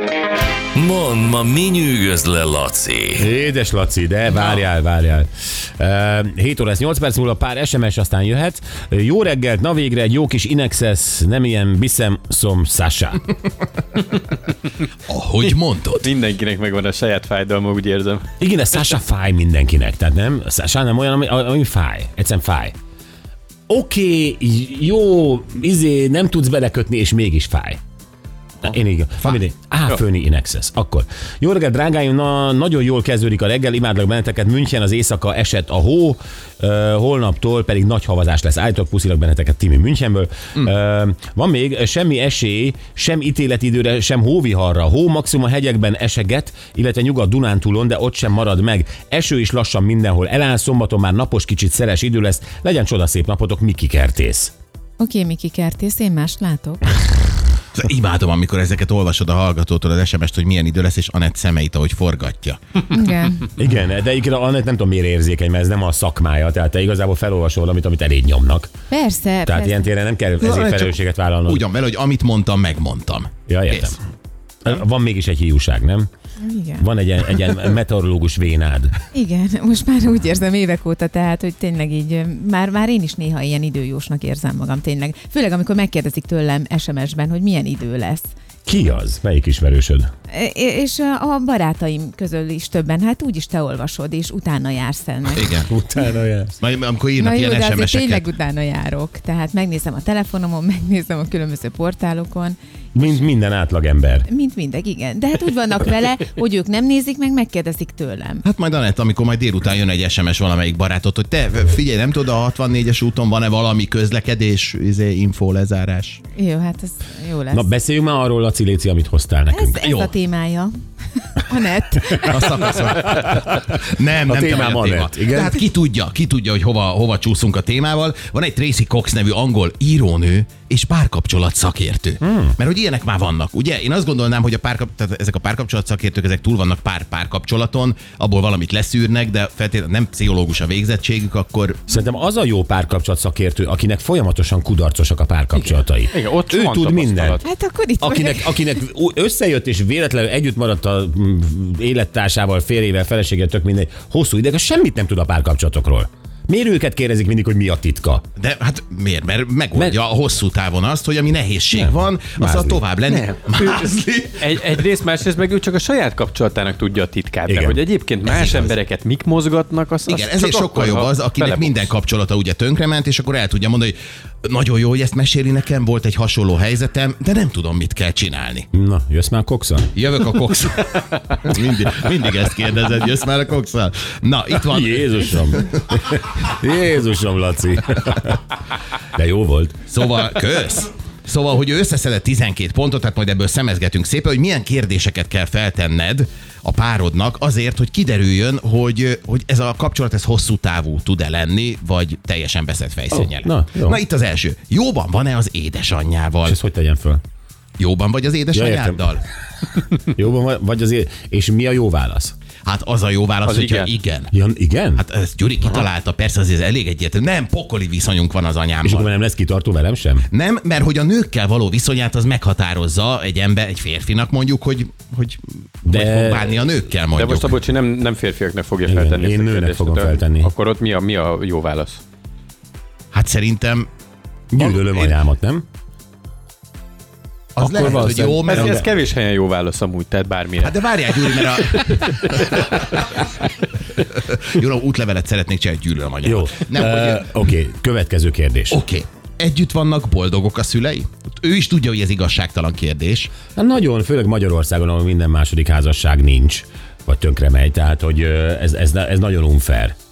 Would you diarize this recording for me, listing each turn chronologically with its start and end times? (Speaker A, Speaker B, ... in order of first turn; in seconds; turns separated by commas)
Speaker A: 0.7-3.2, Speaker B: 3.2-13.2, Speaker C: 15.1-16.1, Speaker D: 16.0-18.3, Speaker B: 18.4-22.7, Speaker B: 23.7-27.8, Speaker B: 28.6-54.5, Speaker E: 55.0-56.9, Speaker C: 57.7-62.8, Speaker E: 62.9-63.5, Speaker B: 63.5-68.7, Speaker E: 68.9-69.9, Speaker B: 69.5-71.6, Speaker C: 70.4-73.9, Speaker B: 73.5-74.0, Speaker B: 74.6-76.1, Speaker E: 76.4-76.9, Speaker B: 76.8-79.0, Speaker E: 79.1-88.3, Speaker B: 88.7-90.1, Speaker E: 90.3-95.6, Speaker C: 95.3-95.7, Speaker B: 95.7-96.5, Speaker C: 96.6-98.2, Speaker E: 97.2-103.1, Speaker B: 102.9-104.3, Speaker E: 104.3-108.4, Speaker C: 108.4-116.2, Speaker E: 116.3-117.7, Speaker B: 117.5-119.8, Speaker E: 119.5-120.7, Speaker C: 119.8-120.1, Speaker E: 121.3-122.4, Speaker C: 122.2-141.9, Speaker B: 124.2-125.6, Speaker B: 132.2-132.6, Speaker B: 141.9-147.4, Speaker D: 145.5-147.4, Speaker E: 147.4-148.6, Speaker B: 148.0-158.2, Speaker C: 158.4-164.6, Speaker B: 161.7-162.8, Speaker D: 163.1-171.9, Speaker B: 167.5-168.7, Speaker C: 170.1-178.7, Speaker B: 178.7-179.9, Speaker C: 179.9-185.8, Speaker B: 184.6-188.4, Speaker B: 189.1-189.8, Speaker C: 189.9-206.6, Speaker B: 203.1-204.0, Speaker B: 206.4-207.2, Speaker C: 207.8-209.2, Speaker B: 208.5-209.1, Speaker B: 209.9-212.3, Speaker C: 212.6-214.3, Speaker D: 213.4-213.9, Speaker B: 214.3-215.0, Speaker C: 215.0-219.1, Speaker B: 218.8-220.3, Speaker C: 220.3-227.6, Speaker B: 225.8-226.5, Speaker D: 227.1-232.0, Speaker B: 228.8-230.5, Speaker C: 233.1-233.9, Speaker B: 234.5-235.6, Speaker C: 234.6-235.1, Speaker C: 237.6-238.9, Speaker B: 237.6-238.9, Speaker D: 238.1-242.7, Speaker C: 240.6-243.1, Speaker C: 243.9-247.3, Speaker B: 246.2-248.8, Speaker C: 248.7-253.3, Speaker B: 253.5-259.9